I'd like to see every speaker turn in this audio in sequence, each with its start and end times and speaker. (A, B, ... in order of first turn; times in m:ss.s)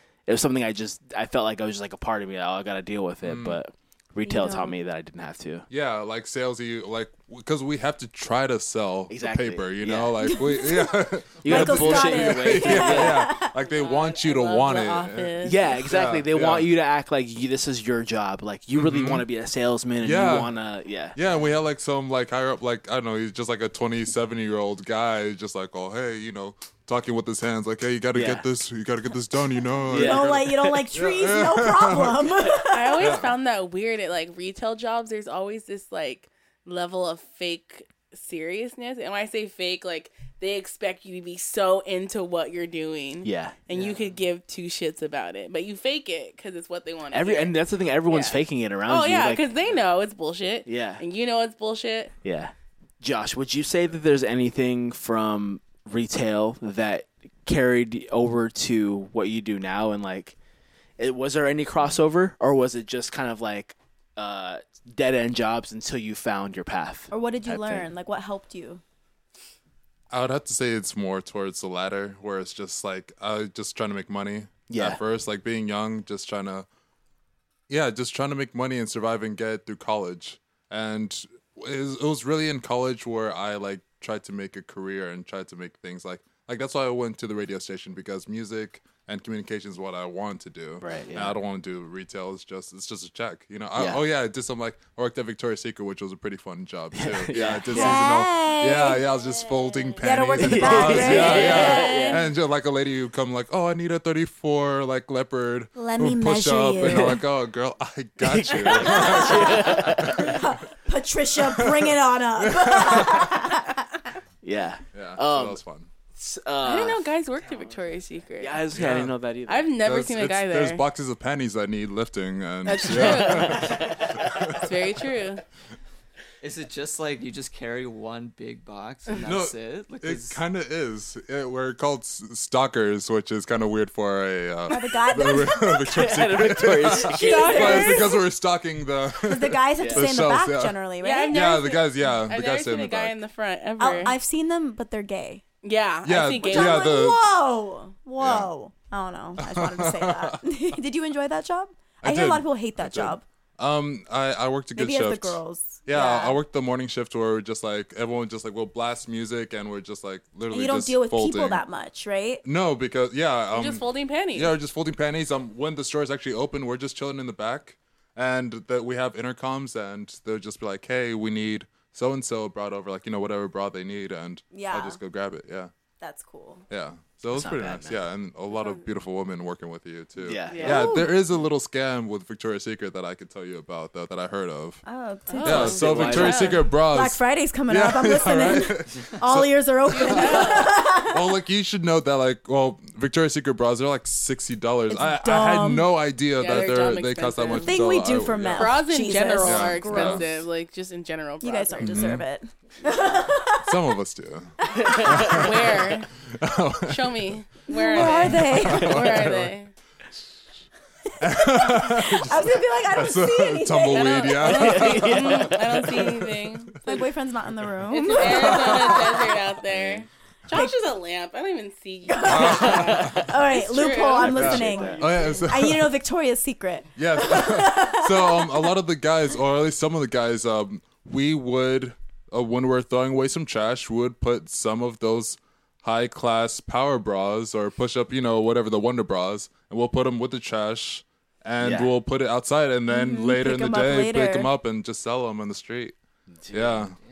0:00.3-0:05.6 A
0:03.2-0:03.6 B
0:04.2-0:04.8 C
0:05.7-0:16.7 B
0:09.1-0:10.1 A
0:10.2-0:13.6 C
0:11.4-0:13.2 A
0:13.7-0:15.8 D
0:15.4-0:21.2 A
0:18.7-0:19.3 B
0:20.0-0:20.5 B
0:21.1-0:32.3 B
0:28.1-0:28.4 A
0:29.9-0:30.4 A
0:29.9-0:33.1 C
0:32.7-0:47.6 D
0:33.0-0:33.3 B
0:43.2-0:44.1 A
0:47.1-0:49.4 A
0:48.1-0:52.1 D
0:50.6-0:51.0 A
0:52.2-1:00.4 A
1:01.0-1:07.9 A
1:07.1-1:08.8 C
1:10.1-1:16.6 B
1:14.7-1:15.0 A
1:17.7-1:50.4 B
1:30.8-1:31.4 A
1:36.9-1:38.0 A
1:37.7-1:39.0 C
1:40.0-1:42.1 C
1:40.4-1:42.2 A
1:41.1-1:42.2 D
1:45.8-1:47.2 C
1:48.2-1:50.3 A
1:48.8-1:53.8 C
1:51.4-1:53.4 B
1:54.4-1:55.6 A
1:54.9-1:55.9 B
1:56.1-1:57.8 A
1:56.6-1:58.6 D
1:58.4-1:59.7 A
1:58.7-1:59.1 B
1:59.5-2:00.8 D
1:59.8-2:04.6 B
2:02.6-2:05.4 D
2:03.0-2:04.1 A
2:06.4-2:10.4 E
2:09.2-2:20.8 B
2:14.7-2:16.1 C
2:15.9-2:17.9 A
2:17.1-2:18.2 C
2:17.1-2:18.2 D
2:19.2-2:21.7 C
2:19.8-2:20.1 A
2:21.0-2:24.2 D
2:21.3-2:23.1 B
2:23.8-2:25.4 C
2:25.6-2:26.9 D
2:26.0-2:27.2 B
2:26.4-2:33.2 C
2:28.2-2:28.5 B
2:29.4-2:30.4 B
2:32.0-2:41.6 B
2:34.8-2:36.4 C
2:40.5-2:42.4 C
2:42.4-2:55.7 B
2:43.5-2:44.5 D
2:54.5-2:55.0 C
2:56.0-2:56.6 C
2:56.7-3:04.8 B
2:57.3-2:58.0 A
2:58.5-2:58.8 D
3:00.2-3:00.8 A
3:00.5-3:01.0 D
3:00.6-3:01.1 C
3:04.8-3:11.4 C
3:05.3-3:06.6 D
3:05.4-3:18.9 B
3:05.5-3:06.6 A
3:09.8-3:10.7 D
3:14.9-3:15.9 C
3:16.4-3:17.8 D
3:17.5-3:20.3 C
3:18.5-3:22.0 D
3:19.4-3:20.3 B
3:21.4-3:23.9 C
3:21.8-3:22.2 B
3:23.6-3:27.4 B
3:24.6-3:25.4 C
3:24.7-3:25.2 A
3:25.2-3:26.1 D
3:26.9-3:29.7 D
3:27.7-3:29.0 C
3:27.9-3:29.5 B
3:31.2-3:36.7 B
3:31.2-3:34.8 C
3:33.9-3:37.0 D
3:34.4-3:35.6 A
3:36.8-3:39.3 C
3:37.9-3:45.5 D
3:38.2-3:40.0 B
3:40.5-3:40.9 C
3:42.1-3:48.8 C
3:42.2-3:43.2 B
3:42.9-3:43.2 A
3:44.3-3:45.9 B
3:44.4-3:45.0 A
3:47.0-4:05.9 B
4:01.6-4:01.9 A
4:02.9-4:04.5 C
4:06.3-4:06.9 A
4:06.5-4:07.0 B